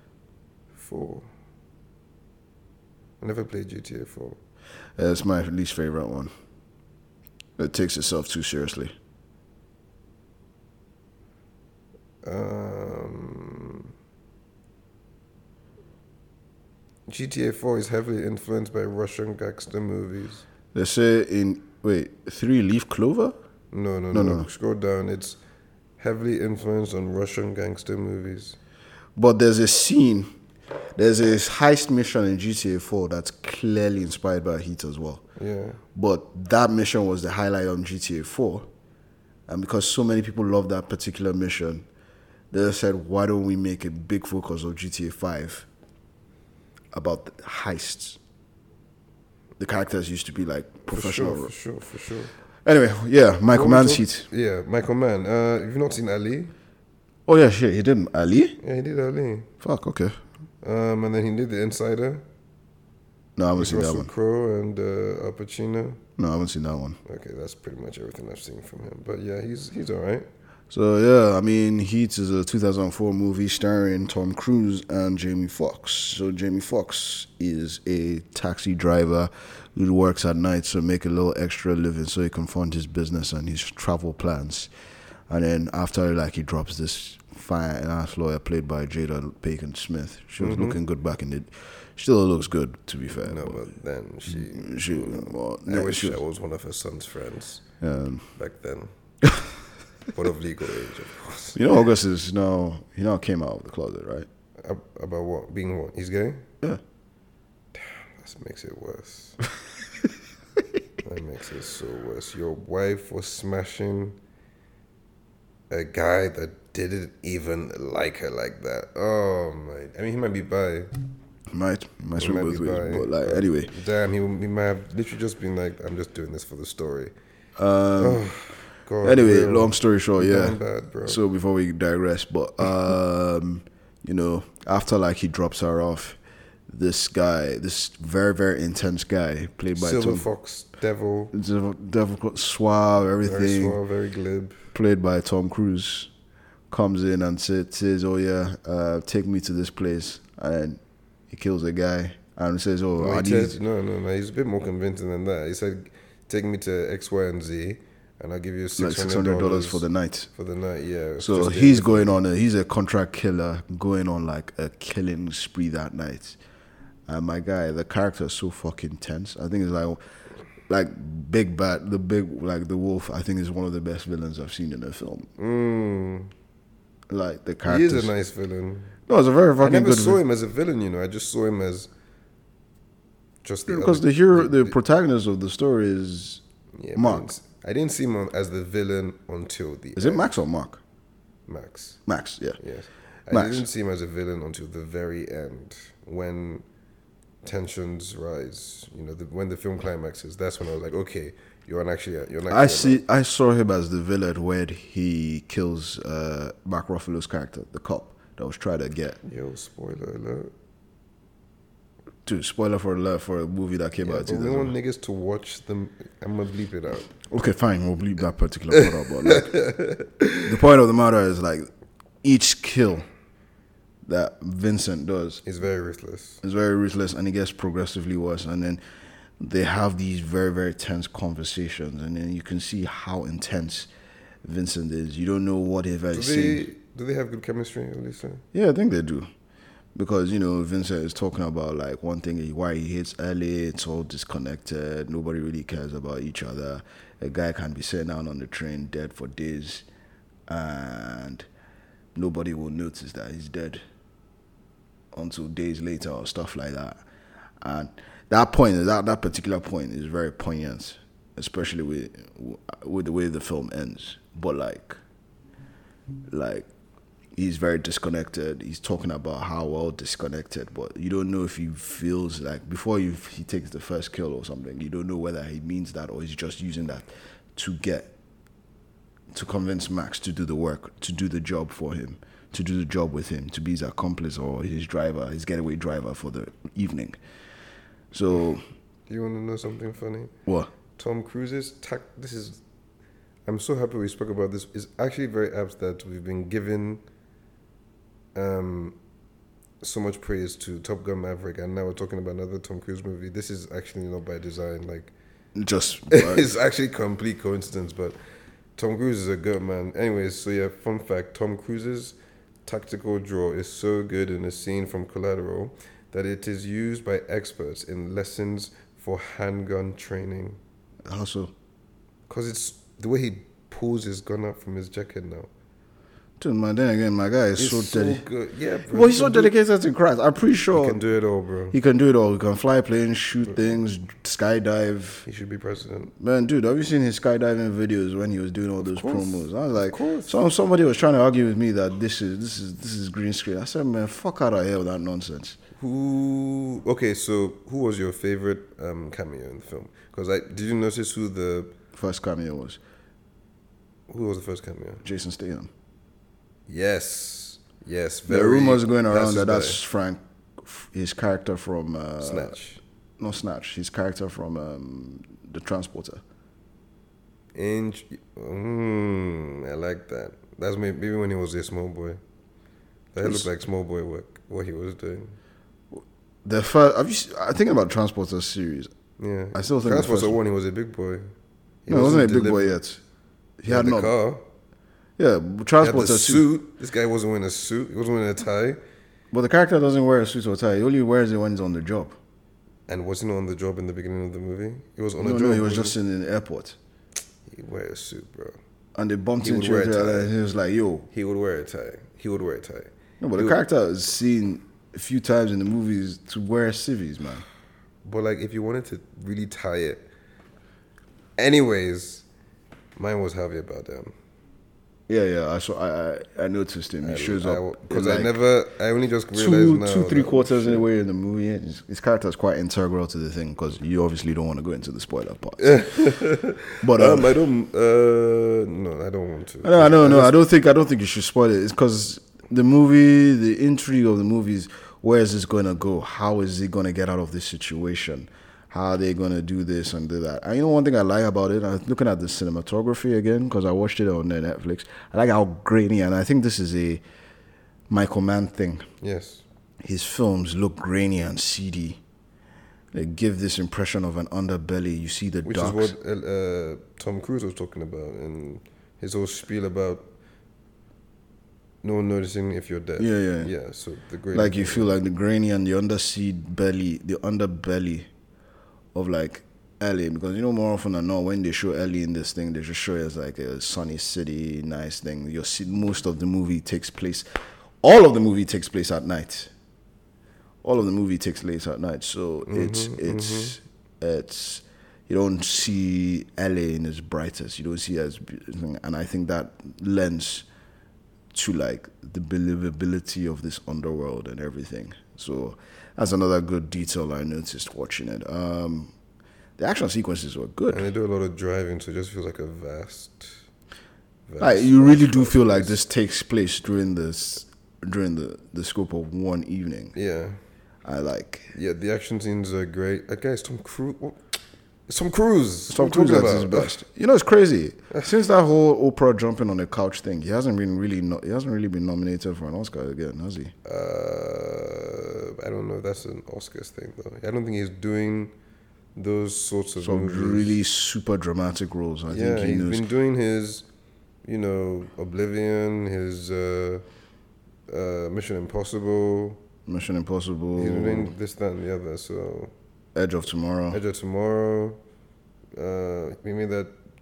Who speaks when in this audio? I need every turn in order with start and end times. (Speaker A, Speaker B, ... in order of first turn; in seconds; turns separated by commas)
Speaker A: 0.7-1.3, Speaker A: 3.2-4.4, Speaker B: 5.0-6.3, Speaker B: 7.6-8.9, Speaker A: 12.2-13.9, Speaker A: 17.1-20.4, Speaker B: 20.7-23.4, Speaker A: 23.7-25.4, Speaker B: 24.1-24.5, Speaker A: 26.0-28.6, Speaker B: 29.2-30.3, Speaker B: 31.0-35.2, Speaker A: 35.4-35.8, Speaker B: 36.0-38.7, Speaker B: 39.5-41.9, Speaker B: 42.5-45.7, Speaker B: 46.9-48.2, Speaker B: 49.6-51.5, Speaker A: 50.9-52.3, Speaker B: 52.6-54.3, Speaker A: 53.5-56.5, Speaker B: 57.3-58.6, Speaker A: 58.6-59.5, Speaker B: 59.6-60.2, Speaker A: 60.6-62.2, Speaker B: 63.4-64.1, Speaker A: 63.5-66.0, Speaker B: 66.2-67.0, Speaker A: 67.0-70.3, Speaker B: 70.7-84.7, Speaker B: 85.3-93.7, Speaker A: 90.4-90.8, Speaker A: 93.2-97.7, Speaker B: 94.3-96.2, Speaker B: 97.8-98.2, Speaker A: 98.4-98.9, Speaker A: 100.1-101.6, Speaker B: 101.5-104.3, Speaker A: 104.6-106.5, Speaker A: 107.7-109.4, Speaker A: 111.0-114.2, Speaker A: 115.7-120.9, Speaker B: 121.5-123.7, Speaker A: 122.2-127.1, Speaker B: 127.6-128.2, Speaker A: 128.0-131.2, Speaker B: 129.0-140.3, Speaker A: 139.8-141.3, Speaker B: 141.3-143.8, Speaker A: 143.2-144.7, Speaker B: 144.7-146.1, Speaker B: 146.7-153.6, Speaker A: 153.0-162.2, Speaker B: 158.8-160.3, Speaker B: 161.2-166.4, Speaker B: 167.1-170.0, Speaker B: 170.7-175.3, Speaker A: 175.4-176.3, Speaker B: 177.1-178.1, Speaker A: 177.7-178.9, Speaker B: 179.1-180.2, Speaker A: 179.6-181.9, Speaker A: 183.4-184.8, Speaker B: 183.7-186.4, Speaker A: 186.8-190.3, Speaker B: 187.0-187.3, Speaker B: 190.0-190.8, Speaker A: 191.5-192.0, Speaker B: 192.1-192.6, Speaker A: 192.6-196.7, Speaker B: 193.3-193.7, Speaker A: 197.4-203.0, Speaker B: 202.5-209.2, Speaker A: 209.2-210.5, Speaker B: 212.3-214.8, Speaker A: 214.0-217.1, Speaker B: 217.3-219.6, Speaker A: 218.8-220.5, Speaker B: 220.5-221.7, Speaker B: 222.2-223.1, Speaker B: 224.1-225.4, Speaker A: 225.4-226.4, Speaker B: 226.4-228.8, Speaker B: 229.4-233.9, Speaker B: 234.4-236.6, Speaker A: 236.1-238.4, Speaker B: 238.5-239.3, Speaker B: 239.9-249.9, Speaker B: 250.5-251.5, Speaker B: 252.2-253.8, Speaker B: 255.1-257.0, Speaker B: 257.6-265.0, Speaker B: 266.3-266.7, Speaker B: 267.4-278.1, Speaker B: 279.3-287.2, Speaker B: 288.1-288.6, Speaker A: 289.1-290.3, Speaker B: 290.5-290.7, Speaker A: 291.0-292.6, Speaker A: 293.5-297.0, Speaker A: 298.4-299.0, Speaker A: 299.8-305.1, Speaker B: 305.6-306.5, Speaker A: 306.1-308.2, Speaker A: 308.8-320.6, Speaker B: 321.1-321.5, Speaker A: 322.3-325.5, Speaker B: 326.4-328.2, Speaker A: 327.6-329.5, Speaker B: 328.9-331.0, Speaker A: 330.7-331.8, Speaker B: 331.7-335.2, Speaker A: 335.3-336.1, Speaker B: 336.2-345.6, Speaker A: 338.8-340.4, Speaker A: 345.8-351.7, Speaker B: 351.9-352.8, Speaker A: 354.1-355.1, Speaker B: 355.0-355.7, Speaker A: 356.7-359.8, Speaker B: 358.3-362.6, Speaker A: 362.2-362.8, Speaker B: 363.2-366.2, Speaker A: 367.6-372.2, Speaker A: 373.1-375.4, Speaker B: 373.2-373.5, Speaker B: 375.9-378.9, Speaker A: 379.2-381.3, Speaker B: 379.5-380.4, Speaker A: 381.9-382.8, Speaker B: 381.9-383.0, Speaker B: 383.6-384.1, Speaker A: 383.7-384.4, Speaker B: 385.2-386.5, Speaker A: 385.8-388.8, Speaker B: 389.3-392.2, Speaker A: 392.9-395.9, Speaker B: 395.2-396.8, Speaker A: 397.5-398.6, Speaker B: 398.9-401.1, Speaker A: 399.4-400.3, Speaker A: 401.1-403.6, Speaker B: 403.2-407.4, Speaker A: 408.0-410.0, Speaker A: 411.4-412.3, Speaker A: 413.0-414.1, Speaker B: 415.1-418.4, Speaker A: 417.0-420.9, Speaker B: 419.4-425.8, Speaker A: 425.6-430.4, Speaker B: 426.8-427.3, Speaker B: 429.6-447.0, Speaker B: 447.9-448.9, Speaker A: 449.0-449.4, Speaker B: 449.8-452.0, Speaker B: 452.9-455.9, Speaker A: 455.4-460.1, Speaker A: 461.8-465.0, Speaker B: 463.0-463.5, Speaker B: 464.3-468.1, Speaker B: 468.9-477.3, Speaker B: 477.8-479.5, Speaker B: 480.6-490.5, Speaker A: 482.5-483.6, Speaker B: 491.3-498.9, Speaker B: 499.6-500.9, Speaker A: 500.7-503.4, Speaker A: 504.3-505.8, Speaker B: 504.4-509.9, Speaker A: 509.9-510.4, Speaker B: 510.8-511.5, Speaker A: 511.5-514.2, Speaker A: 514.9-516.8, Speaker B: 515.7-523.5, Speaker A: 523.6-528.3, Speaker A: 529.0-530.6, Speaker B: 529.8-532.9, Speaker A: 532.1-533.7, Speaker A: 534.2-536.9, Speaker A: 537.7-539.4, Speaker B: 539.7-541.1, Speaker A: 540.6-542.5, Speaker B: 543.0-543.8, Speaker A: 543.7-544.8, Speaker A: 545.6-546.7